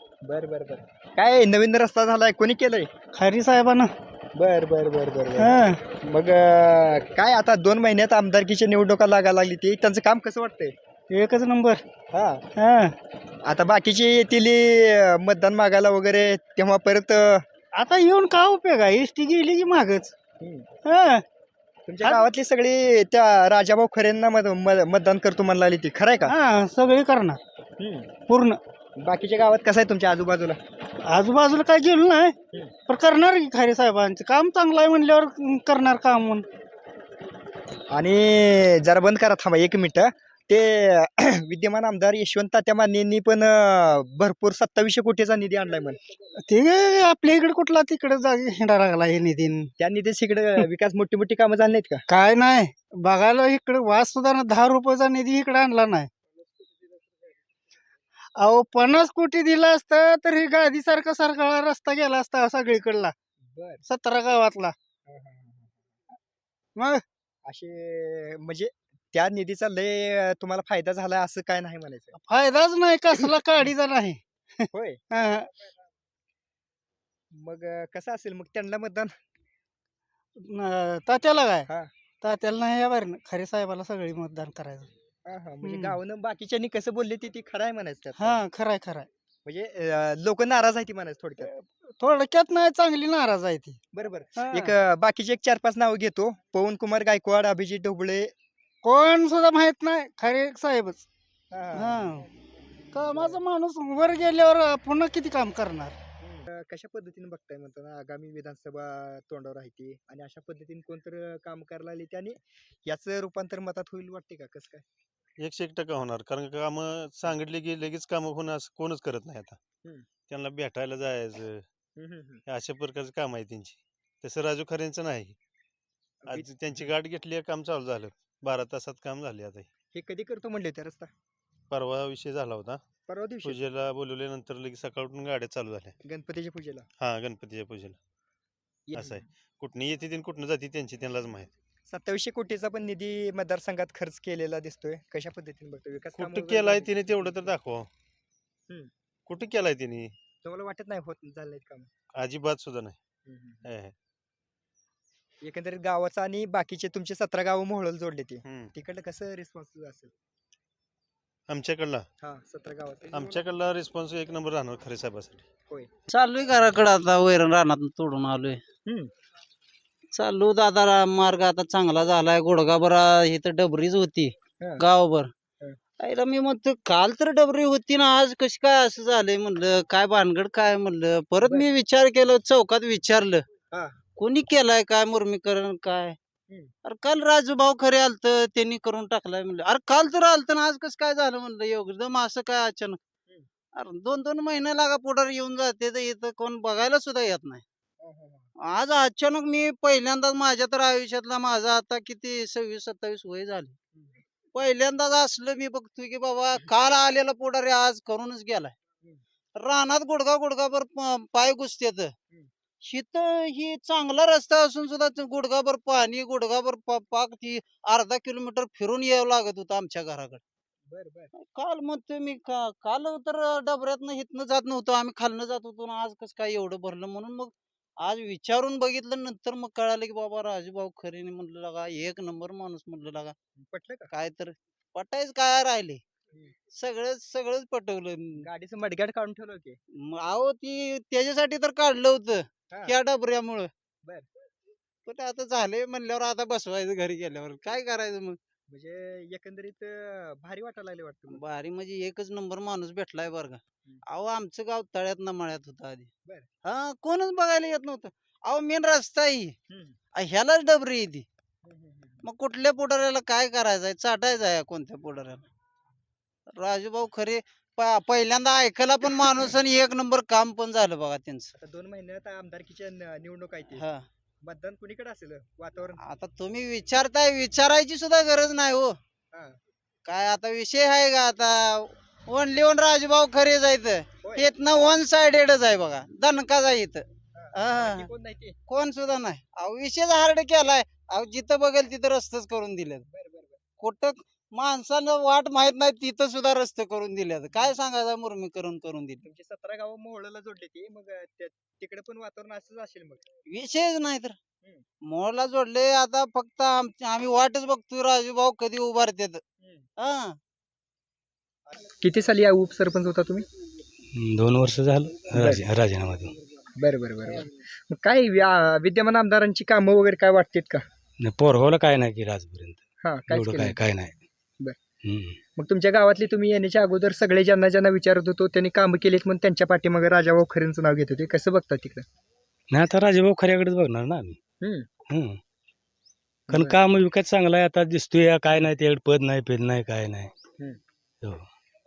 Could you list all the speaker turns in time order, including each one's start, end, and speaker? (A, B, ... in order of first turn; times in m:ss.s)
0:00.3-0:02.9 A
0:03.1-0:03.9 B
0:04.4-0:10.7 A
0:05.4-0:05.8 B
0:11.1-0:11.8 B
0:12.1-0:12.4 A
0:12.6-0:12.9 B
0:13.4-0:17.4 A
0:17.7-0:20.1 B
0:20.8-0:21.2 B
0:21.9-0:26.4 A
0:26.2-0:27.4 B
0:27.8-0:28.1 A
0:28.3-0:28.6 B
0:29.0-0:30.6 A
0:31.0-0:32.3 B
0:32.9-0:36.4 B
0:37.9-0:46.0 A
0:46.4-0:49.7 B
0:49.8-0:52.0 A
0:52.1-0:56.1 B
0:58.4-1:03.1 B
1:03.5-1:03.8 A
1:03.8-1:04.7 B
1:05.1-1:05.7 A
1:06.8-1:07.0 B
1:07.5-1:12.1 A
1:12.1-1:15.5 B
1:14.7-1:15.0 A
1:17.4-1:19.1 A
1:20.4-1:21.7 B
1:22.2-1:24.9 B
1:25.3-1:28.4 A
1:25.6-1:26.0 B
1:28.2-1:29.1 B
1:29.4-1:31.5 A
1:31.4-1:33.8 B
1:33.9-1:38.3 A
1:34.4-1:34.7 B
1:38.8-1:41.0 B
1:41.5-1:42.2 A
1:41.7-1:42.2 B
1:42.9-1:45.9 B
1:43.0-1:43.4 A
1:46.2-1:54.8 A
1:55.4-1:59.6 C
2:00.3-2:01.6 C
2:02.0-2:02.4 A
2:02.5-2:05.4 C
2:06.2-2:06.8 A
2:06.3-2:09.6 C
2:09.9-2:11.1 A
2:11.7-2:12.8 C
2:13.1-2:13.6 A
2:13.4-2:15.9 C
2:16.0-2:16.9 A
2:17.0-2:18.0 C
2:18.9-2:19.2 A
2:19.0-2:21.5 C
2:21.9-2:27.5 A
2:26.2-2:27.9 C
2:29.3-2:30.1 C
2:30.4-2:31.9 A
2:32.1-2:33.0 C
2:33.2-2:33.6 A
2:33.6-2:33.9 C
2:35.4-2:40.1 A
2:38.4-2:38.7 C
2:41.5-2:42.0 C
2:42.2-2:43.4 A
2:43.1-2:45.4 C
2:46.1-2:48.6 D
2:50.1-2:55.3 D
2:56.0-3:03.4 D
3:01.4-3:01.7 A
3:04.2-3:06.2 D
3:06.8-3:13.0 D
3:13.8-3:17.6 D
3:18.0-3:18.5 A
3:18.6-3:23.8 D
3:24.5-3:28.7 D
3:29.5-3:32.1 D
3:32.8-3:40.4 D
3:40.9-3:41.3 A
3:41.4-3:53.3 D
3:53.6-3:54.1 A
3:54.1-3:56.0 D
3:56.7-3:58.4 D
3:58.4-3:59.8 A
4:00.0-4:03.7 D
4:02.7-4:03.0 A
4:05.0-4:08.4 D
4:08.7-4:11.4 A
4:11.3-4:16.1 D
4:16.6-4:19.5 D
4:19.7-4:20.0 A
4:20.1-4:21.2 D
4:21.6-4:22.2 A
4:22.2-4:25.4 D
4:26.5-4:31.5 D
4:31.6-4:33.8 A
4:33.8-4:34.0 D
4:34.4-4:36.0 A
4:36.0-4:39.0 D
4:40.0-4:48.1 D
4:44.2-4:44.5 A
4:47.3-4:48.6 A
4:48.7-4:53.0 D
4:53.1-4:53.6 A
4:53.8-4:59.2 D
4:59.2-5:03.2 A
5:03.5-5:04.4 D
5:05.0-5:09.4 D
5:10.0-5:10.3 D
5:12.0-5:13.4 A
5:14.1-5:16.3 E
5:15.3-5:15.6 A
5:16.8-5:20.8 A
5:21.2-5:22.8 E
5:23.0-5:23.8 A
5:23.3-5:24.2 E
5:25.0-5:25.4 E
5:25.6-5:32.0 A
5:32.7-5:34.4 E
5:35.1-5:35.4 E
5:36.5-5:36.8 A
5:36.5-5:40.3 E